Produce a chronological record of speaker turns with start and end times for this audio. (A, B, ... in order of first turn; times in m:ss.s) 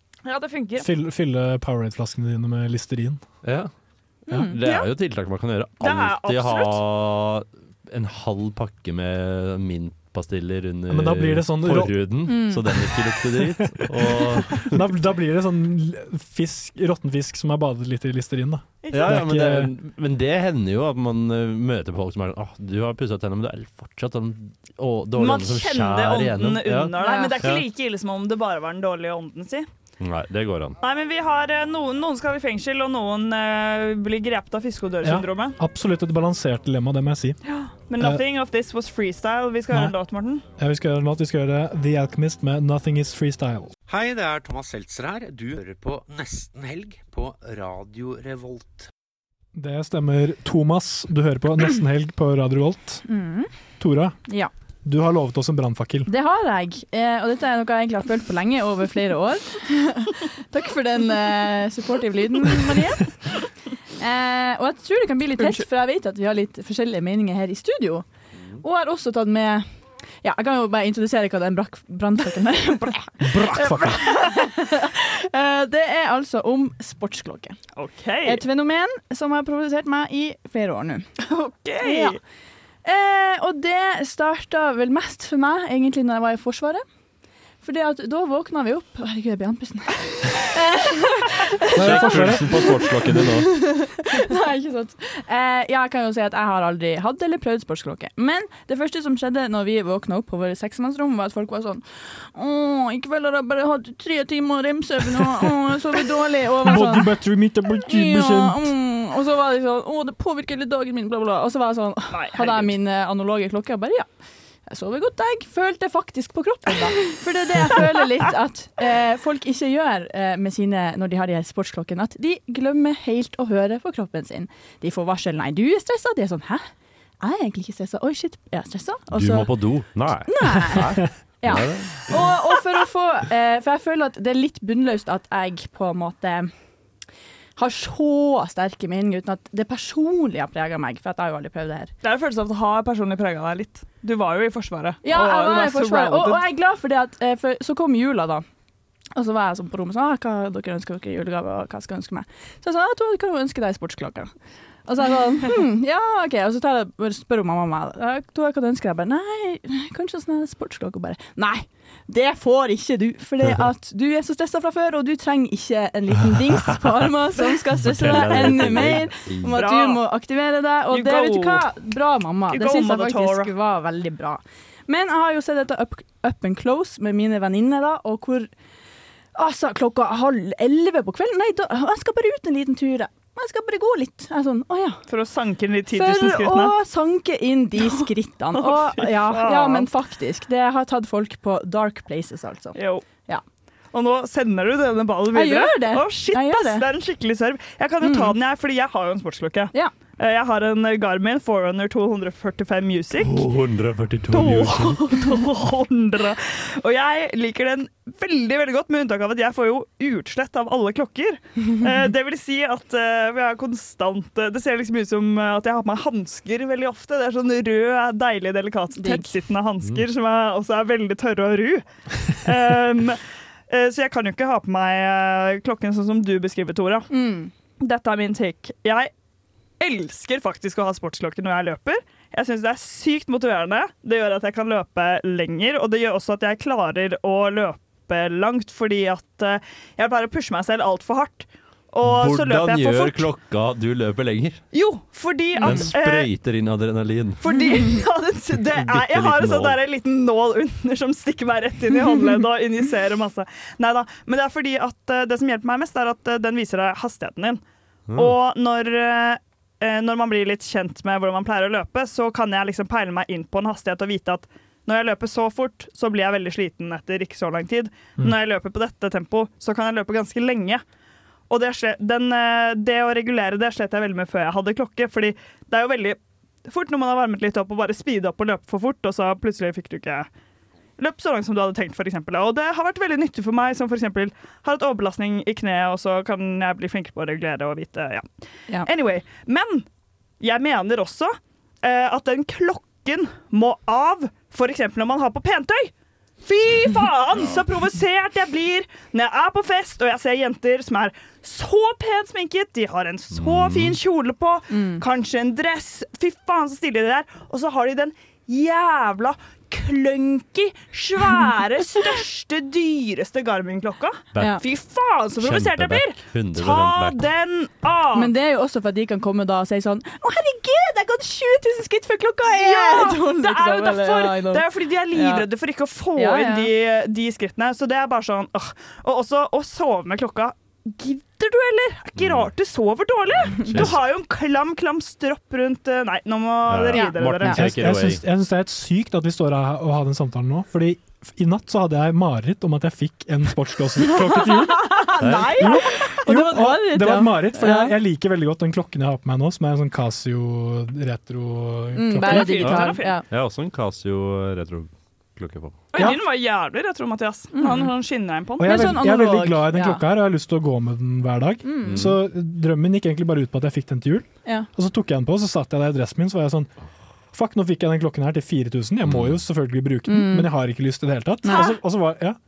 0:00.2-0:00.9 A
0:00.8-0:03.2 B
0:03.4-0:03.7 C
0:04.3-0:04.6 D
0:04.4-0:14.8 C
0:05.8-0:06.8 A
0:10.9-0:12.0 B
0:12.3-0:12.6 D
0:13.4-0:19.7 B
0:18.8-0:19.2 A
0:18.9-0:27.6 C
0:25.2-0:29.7 A
0:27.0-0:27.4 D
0:30.0-0:30.8 C
0:30.8-0:35.6 A
0:35.0-0:37.4 B
0:37.4-0:40.4 A
0:38.0-0:38.2 B
0:39.7-0:39.9 B
0:40.6-0:43.7 B
0:43.9-0:48.9 E
0:49.5-0:53.0 B
0:53.0-0:53.5 D
0:53.8-0:54.2 B
0:54.8-0:56.1 B
0:56.1-1:03.1 D
1:04.0-1:08.0 D
1:05.4-1:05.6 A
1:08.6-1:09.6 D
1:10.2-1:17.6 D
1:13.2-1:14.0 B
1:17.8-1:18.4 A
1:18.2-1:21.0 D
1:21.2-1:22.2 A
1:21.8-1:22.2 D
1:22.8-1:26.8 D
1:27.6-1:47.1 D
1:31.7-1:33.5 C
1:31.7-1:32.8 B
1:46.6-1:48.7 B
1:47.8-1:54.0 D
1:52.1-1:52.7 A
1:54.7-2:06.7 D
2:07.2-2:09.5 D
2:09.1-2:12.2 C
2:10.3-2:16.5 D
2:17.6-2:21.9 D
2:22.0-2:26.4 A
2:25.0-2:28.4 D
2:29.2-2:34.3 D
2:34.8-2:58.5 D
2:47.8-2:49.6 C
2:48.0-2:49.0 A
2:49.5-2:50.0 A
2:50.9-2:51.6 A
2:52.5-2:53.5 A
2:59.3-3:05.0 D
3:05.1-3:06.7 A
3:05.9-3:13.4 D
3:07.8-3:09.9 A
3:12.7-3:13.0 A
3:13.9-3:23.4 A
3:15.3-3:16.8 D
3:18.0-3:18.4 D
3:23.2-3:25.0 C
3:24.3-3:47.1 A
3:39.0-3:39.3 D
3:47.1-3:47.5 D
3:47.8-3:49.1 A
3:49.8-4:03.3 A
4:02.0-4:04.6 C
4:04.7-4:06.3 A
4:05.5-4:05.9 D
4:05.6-4:07.5 C
4:07.4-4:17.6 A
4:08.5-4:09.8 C
4:18.1-4:18.3 C
4:18.1-4:30.8 A
4:31.5-4:40.3 A
4:41.0-4:48.3 A
4:48.8-4:49.8 A
4:50.4-5:18.3 A
5:03.3-5:04.0 C
5:04.7-5:05.0 D
5:14.3-5:14.6 C
5:14.4-5:14.6 D
5:15.4-5:17.3 C
5:18.1-5:25.5 D
5:22.5-5:37.5 A
5:26.1-5:26.7 D
5:32.2-5:32.5 C
5:33.4-5:34.0 C
5:36.7-5:38.2 C
5:36.9-5:37.6 D
5:37.5-5:52.6 B
5:44.1-5:47.9 D
5:45.2-5:45.6 C
5:51.9-5:53.2 D
5:52.2-5:53.1 A
5:52.6-5:55.8 C
5:55.9-5:58.9 A
5:55.9-5:56.2 B
5:57.5-5:57.9 D
5:58.6-6:06.7 B
5:58.6-6:00.0 D
6:01.6-6:02.0 D
6:01.8-6:02.2 C
6:07.3-6:12.4 B
6:09.0-6:09.4 C
6:10.1-6:10.5 D
6:11.4-6:11.8 D